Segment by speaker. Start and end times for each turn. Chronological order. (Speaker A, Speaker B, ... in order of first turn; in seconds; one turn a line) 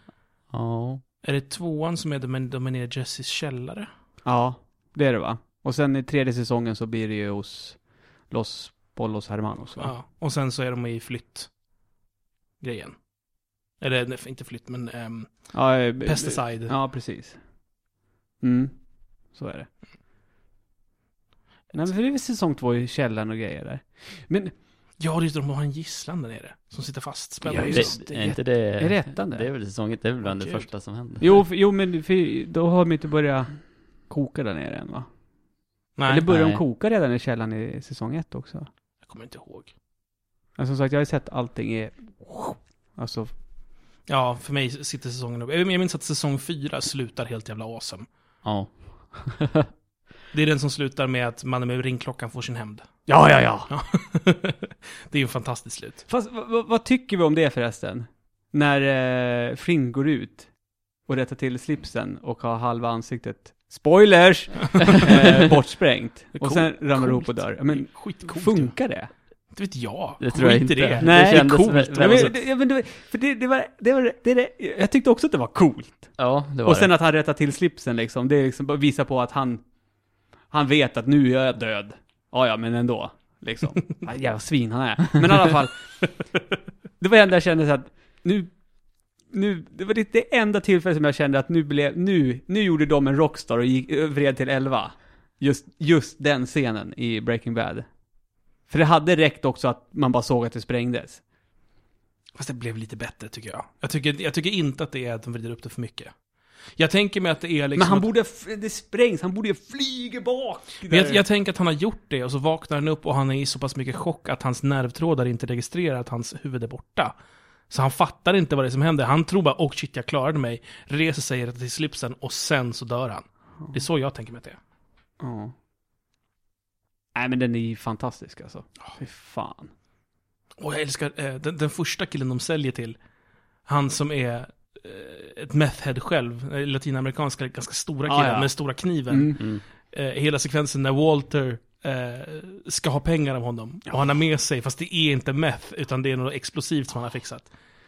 Speaker A: 0.5-1.0
Speaker B: 1.2-3.9
Speaker C: 4.2-9.9
Speaker B: 9.8-11.5
Speaker B: 12.6-13.0
Speaker B: 13.8-16.7
Speaker C: 15.5-17.4
Speaker C: 18.4-18.8
Speaker C: 19.3-19.7
Speaker C: 21.7-24.5
Speaker B: 25.0-28.1
Speaker C: 27.4-29.5
Speaker A: 27.7-31.4
Speaker B: 30.2-30.7
Speaker C: 31.2-35.1
Speaker B: 36.0-36.3
Speaker C: 36.1-38.7
Speaker A: 36.3-36.6
Speaker B: 39.0-39.7
Speaker C: 40.6-43.3
Speaker B: 44.1-48.1
Speaker A: 48.4-49.7
Speaker B: 50.3-52.9
Speaker C: 53.1-53.7
Speaker B: 53.7-56.0
Speaker C: 56.1-60.5
Speaker C: 61.0-69.1
Speaker B: 66.3-68.8
Speaker B: 69.5-72.3
Speaker A: 70.2-72.3
Speaker C: 71.0-79.6
Speaker A: 76.2-76.9
Speaker C: 80.5-86.1
Speaker C: 87.0-88.6
Speaker C: 89.3-97.9
Speaker C: 98.7-101.2
Speaker B: 102.3-106.1
Speaker B: 106.8-108.1
Speaker C: 107.8-111.2
Speaker B: 110.9-117.1
Speaker B: 117.7-124.6
Speaker C: 125.2-125.5
Speaker C: 127.2-129.7
Speaker B: 130.6-133.0
Speaker B: 133.7-147.5
Speaker C: 138.1-138.5
Speaker C: 139.1-139.4